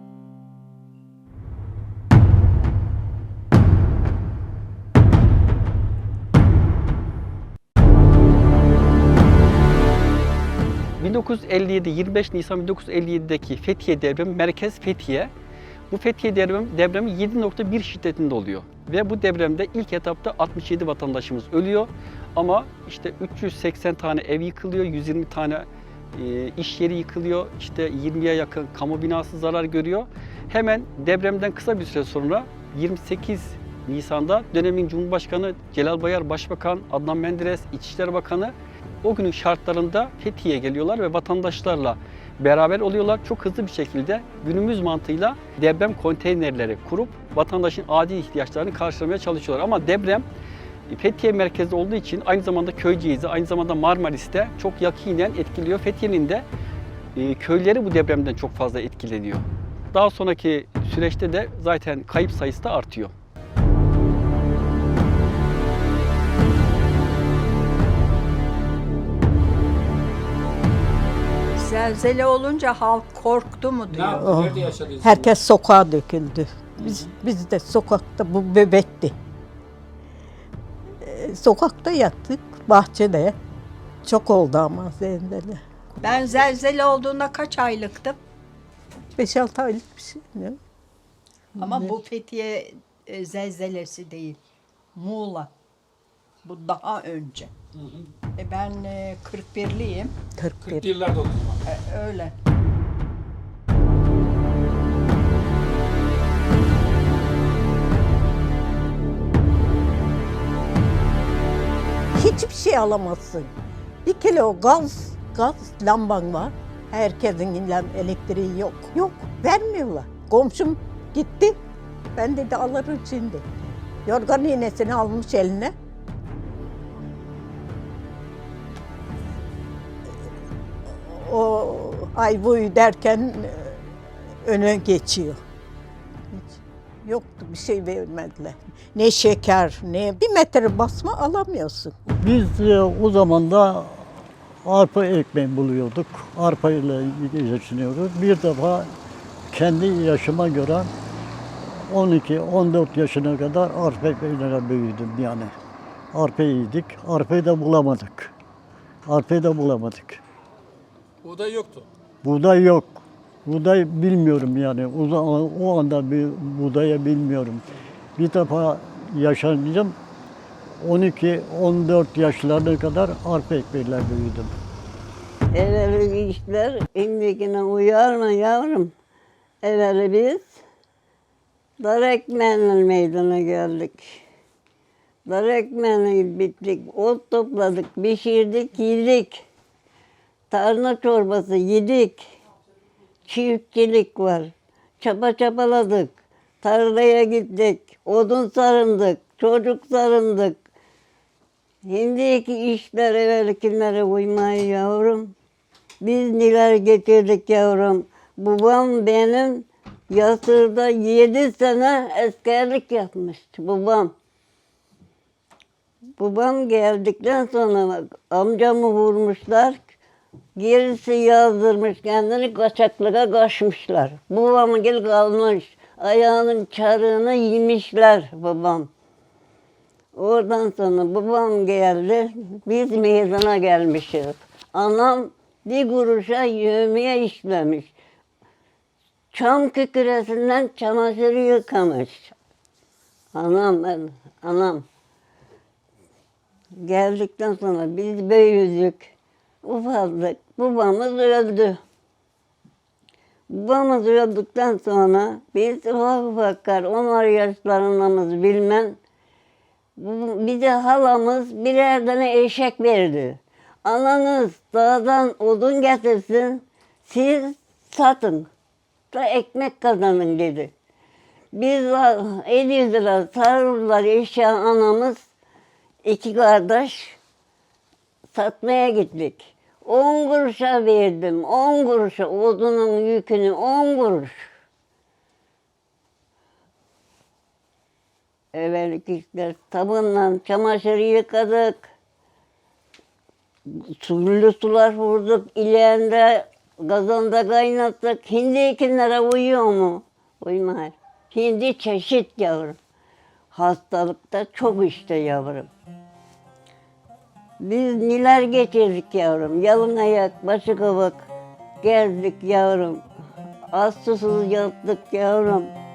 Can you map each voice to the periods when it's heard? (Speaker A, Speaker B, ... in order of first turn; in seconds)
Speaker A: 11.0-15.3, 15.9-50.3, 50.9-56.5, 57.1-63.1
Speaker B: 71.6-74.3, 86.0-88.2, 91.6-94.4, 95.0-95.5, 96.4-97.5, 98.4-100.2, 101.7-102.3
Speaker C: 73.9-75.4, 76.8-77.1, 97.7-98.1, 100.7-101.6, 161.2-161.9
Speaker D: 74.2-79.2, 81.0-83.4, 84.0-85.6, 89.2-90.6, 91.6-92.0, 100.4-100.9, 112.1-113.5, 114.0-121.6, 122.2-123.5, 124.1-125.7, 131.0-133.8, 134.4-135.4, 136.3-141.9
Speaker E: 142.2-148.9, 149.5-150.9, 151.9-155.5, 156.1-158.3, 159.1-160.2, 162.2-167.7, 168.2-170.0, 170.8-174.5
Speaker F: 175.5-178.9, 179.6-180.6, 181.8-184.2, 185.3-189.4, 190.5-192.3, 193.3-200.6, 201.9-205.3, 206.0-214.1, 216.2-219.9, 220.6-228.9, 230.2-237.9, 239.3-242.3, 243.3-244.8, 246.8-249.1, 249.6-251.8, 253.5-259.0, 260.0-268.5, 269.1-270.7, 271.5-275.2, 276.1-277.2, 278.3-284.3, 288.5-291.9, 293.7-302.8, 303.5-305.7, 307.6-311.2, 311.8-313.0, 313.7-315.7